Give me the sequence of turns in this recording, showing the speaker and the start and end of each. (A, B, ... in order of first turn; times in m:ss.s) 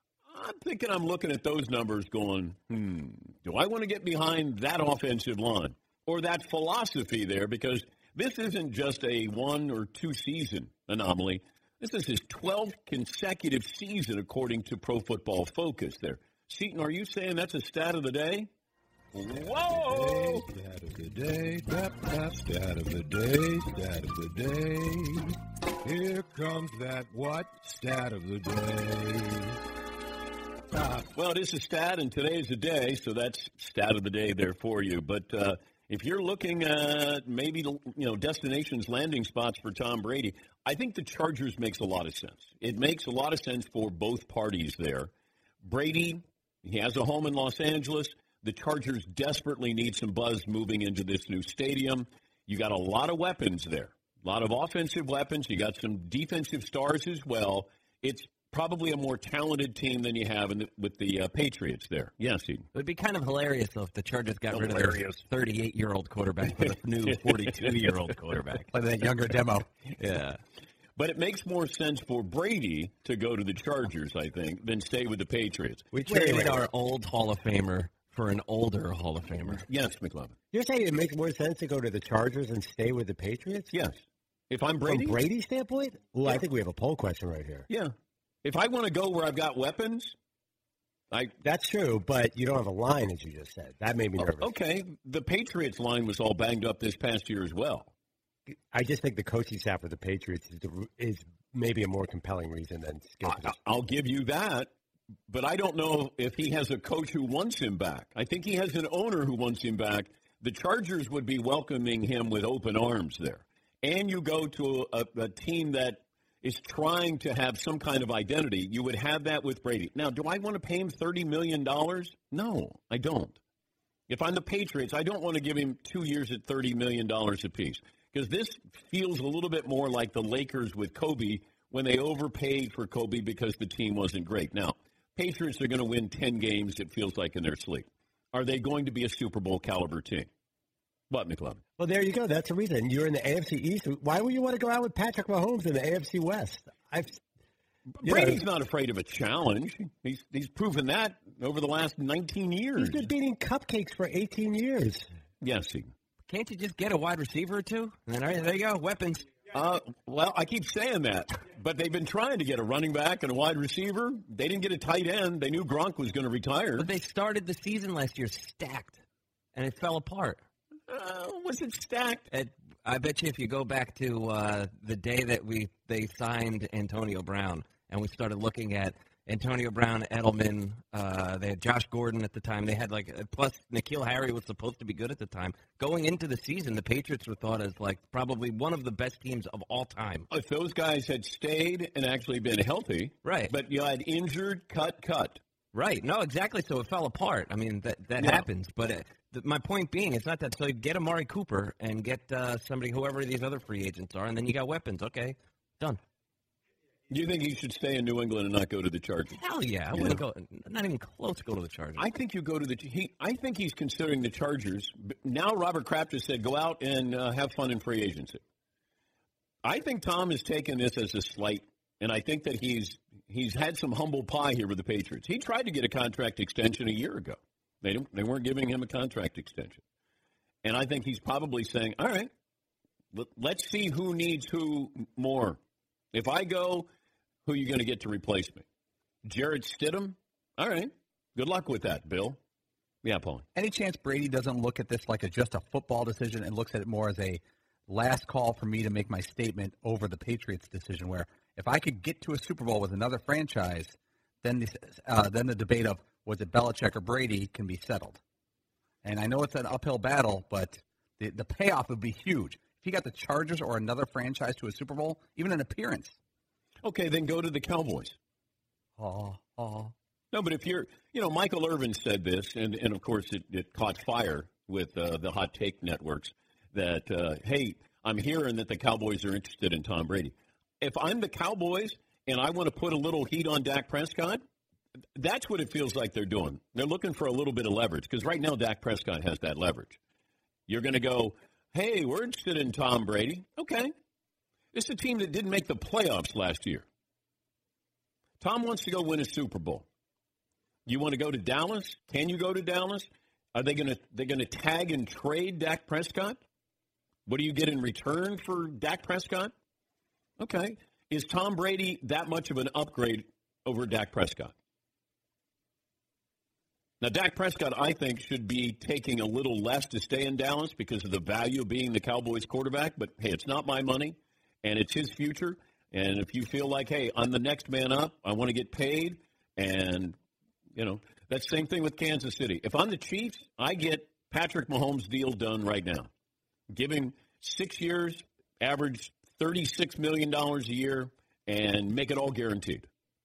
0:00.3-0:18.5 A
0:19.1-0:20.5 A
0:19.7-0:20.3 B
0:20.9-0:25.1 B
0:25.8-0:29.4 B
0:31.0-0:45.1 A
0:45.6-1:02.7 A
1:02.7-1:08.7 C
1:04.5-1:05.2 A
1:06.6-1:07.9 A
1:08.7-1:09.7 D
1:10.0-1:10.4 C
1:11.0-1:15.9 A
1:15.9-1:16.6 E
1:16.0-1:19.6 C
1:19.7-1:20.4 A
1:20.5-1:23.7 E
1:23.7-1:25.2 A
1:24.8-1:27.7 E
1:27.7-1:30.1 A
1:31.4-1:34.5 E
1:34.2-1:37.9 A
1:38.5-1:43.6 E
1:43.2-1:44.7 A
1:45.3-2:03.4 A
2:04.1-2:20.3 A
2:21.1-2:21.6 A
2:21.8-2:27.2 E
2:28.0-2:33.1 A
2:28.0-2:28.4 E
2:32.8-2:35.1 E
2:35.4-2:35.9 A
2:36.3-2:39.3 C
2:39.5-2:46.9 A
2:46.8-2:49.0 C
2:49.5-2:50.4 C
2:50.9-2:52.3 A
2:52.3-3:10.3 C
3:10.3-3:15.4 A
3:13.2-3:13.5 C
3:15.7-3:26.0 C
3:18.2-3:18.4 A
3:27.1-3:29.4 A
3:29.3-3:32.1 C
3:29.9-3:30.2 A
3:32.0-3:38.4 A
3:39.6-3:49.8 A
3:50.6-3:52.3 A
3:53.1-3:55.6 A
3:56.1-3:56.9 A
3:57.4-3:58.6 A
3:59.2-4:02.4 A
4:03.0-4:03.4 A
4:03.5-4:18.2 D
4:19.0-4:26.2 D
4:26.8-4:28.2 A
4:29.0-4:29.9 D
4:30.3-4:44.4 A
4:45.1-4:50.0 A
4:50.7-4:53.9 A
4:54.7-4:56.8 A
4:58.4-4:59.8 A
5:00.8-5:06.4 A
5:07.2-5:09.5 A
5:10.4-5:14.5 A
5:17.0-5:30.2 A
5:30.7-5:36.1 A
5:36.7-5:42.9 A